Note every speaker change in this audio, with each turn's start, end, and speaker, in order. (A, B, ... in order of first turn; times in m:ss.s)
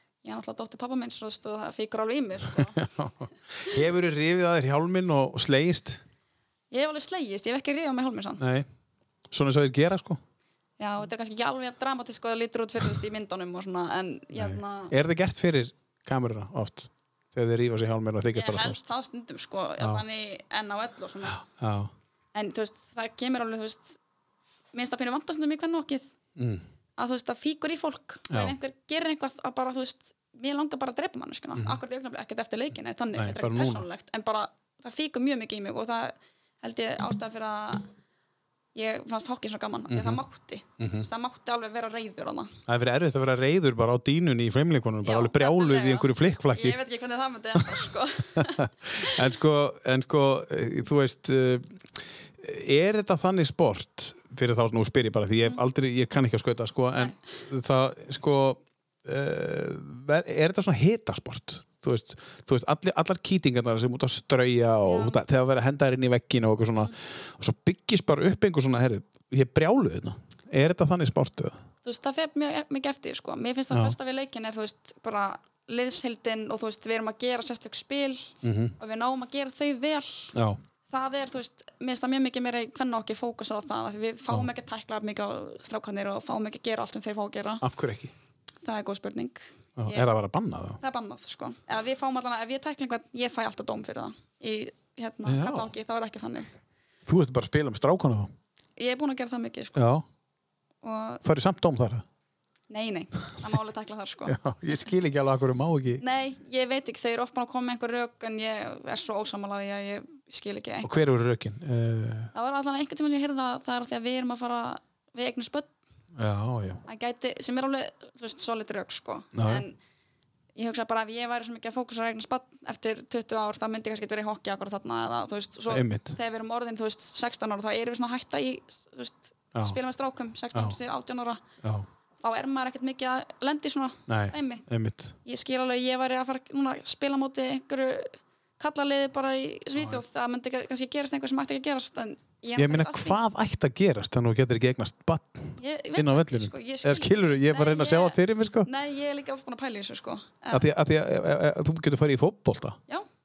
0:00.2-0:02.9 A
0:02.5-0:06.0 B
0:06.7-0:08.6 A
0:08.4-0:08.7 B
0:09.3-0:10.2 B
0:10.8-0:14.9 A
0:14.3-0:18.8 B
0:18.3-0:21.4 A
0:21.4-0:21.9 B
0:22.3-0:24.0 A
0:24.7-0:26.1 A
0:26.4-0:26.6 B
0:27.0-0:37.9 A
0:28.3-0:28.5 B
0:33.1-0:33.8 B
0:38.7-0:42.6 A
0:39.9-0:40.2 B
0:40.8-0:41.1 B
0:42.7-0:46.8 B
0:45.0-0:49.2 A
0:47.6-1:11.6 B
1:04.8-1:05.2 A
1:11.8-1:20.3 A
1:18.4-1:18.7 B
1:20.3-1:20.6 B
1:20.9-1:27.6 A
1:27.6-1:28.1 B
1:28.6-1:30.1 A
1:29.8-1:30.8 B
1:30.8-1:36.5 A
1:35.2-1:35.7 B
1:37.0-1:38.3 B
1:38.8-1:39.9 A
1:39.7-1:40.0 B
1:40.8-1:41.2 A
1:41.2-1:42.0 B
1:42.7-1:44.4 A
1:44.3-1:46.0 B
1:46.0-1:50.9 A
1:50.8-1:52.3 B
1:52.3-1:55.7 A
1:56.1-1:56.8 B
1:56.8-1:59.8 A
1:59.3-1:59.6 B
2:00.5-2:11.4 A
2:05.7-2:06.2 B
2:11.6-2:11.9 B
2:12.2-2:14.7 A
2:14.1-2:15.1 B
2:15.2-2:23.2 A
2:22.6-2:28.7 B
2:25.6-2:30.6 A
2:30.5-2:32.8 B